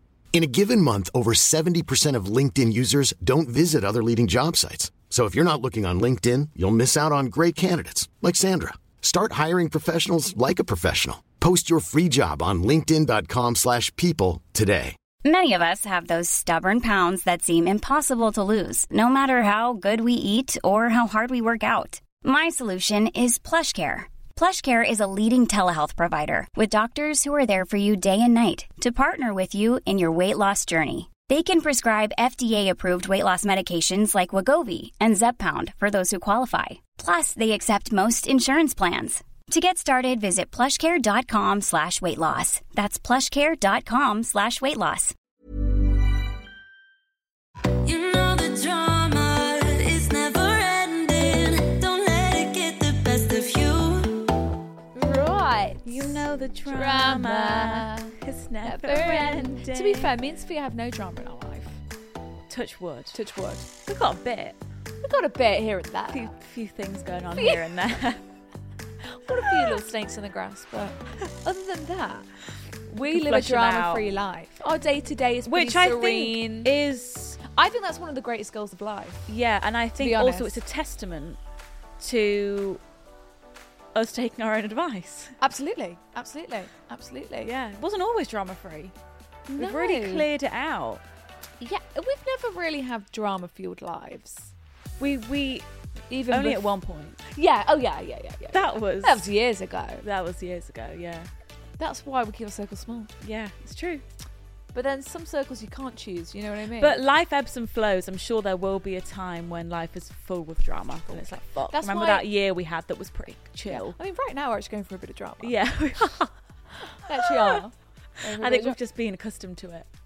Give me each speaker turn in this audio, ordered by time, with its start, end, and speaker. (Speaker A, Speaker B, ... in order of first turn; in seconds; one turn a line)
Speaker A: 0.3-15.0
Speaker B: 15.2-45.1
Speaker C: 47.9-54.2
Speaker D: 55.0-61.8
Speaker E: 55.9-60.1
Speaker E: 62.5-63.2
Speaker D: 63.1-63.7
Speaker E: 63.8-64.6
Speaker D: 65.0-66.3
Speaker E: 66.1-68.2
Speaker D: 67.4-67.7
Speaker D: 69.1-72.3
Speaker D: 72.9-76.7
Speaker E: 73.0-74.0
Speaker E: 75.5-77.4
Speaker D: 77.5-79.3
Speaker E: 79.3-81.4
Speaker D: 80.0-80.6
Speaker E: 82.0-82.8
Speaker E: 84.0-85.3
Speaker D: 85.4-87.5
Speaker E: 87.4-88.9
Speaker D: 89.5-90.3
Speaker E: 89.5-91.0
Speaker D: 91.6-94.5
Speaker E: 95.0-95.7
Speaker D: 96.1-96.8
Speaker E: 96.3-97.2
Speaker D: 97.3-100.0
Speaker E: 98.5-99.2
Speaker E: 100.0-101.3
Speaker D: 101.8-103.1
Speaker E: 103.2-104.0
Speaker D: 104.7-107.0
Speaker E: 106.8-114.0
Speaker D: 111.1-112.3
Speaker D: 113.7-115.5
Speaker E: 115.4-116.3
Speaker D: 116.8-118.8
Speaker E: 117.3-117.6
Speaker E: 118.2-119.9